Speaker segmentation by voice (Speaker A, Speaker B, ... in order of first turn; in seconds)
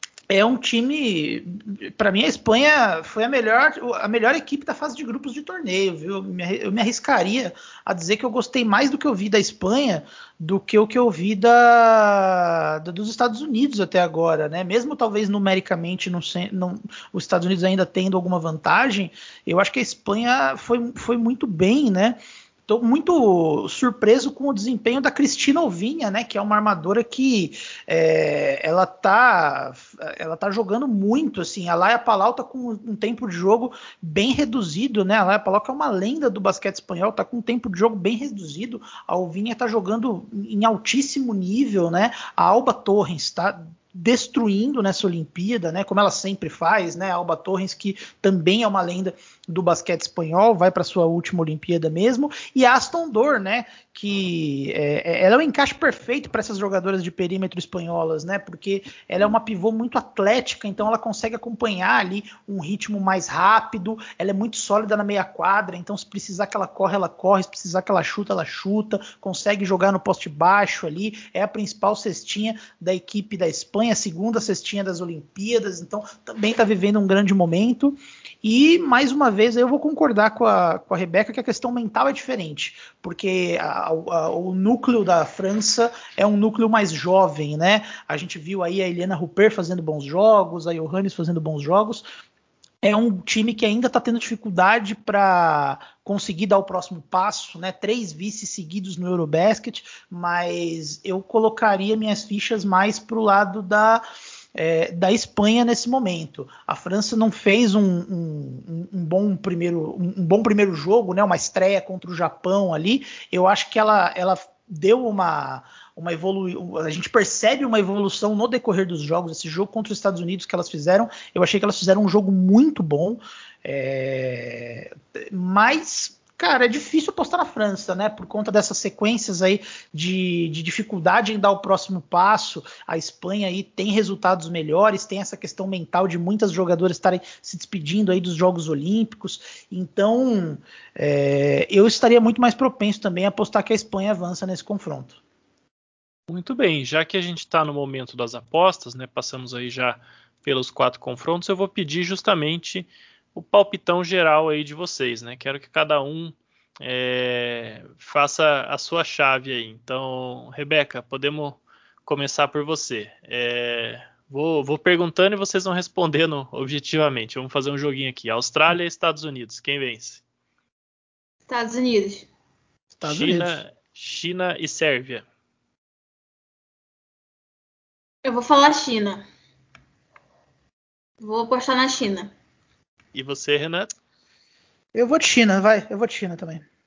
Speaker A: 0.3-92.0, 92.8-104.0, 104.5-145.2, 173.0-173.6, 184.9-186.6
Speaker B: 146.3-170.2, 173.0-175.2, 183.1-183.9
Speaker C: 171.5-172.3, 178.2-179.2, 181.2-182.3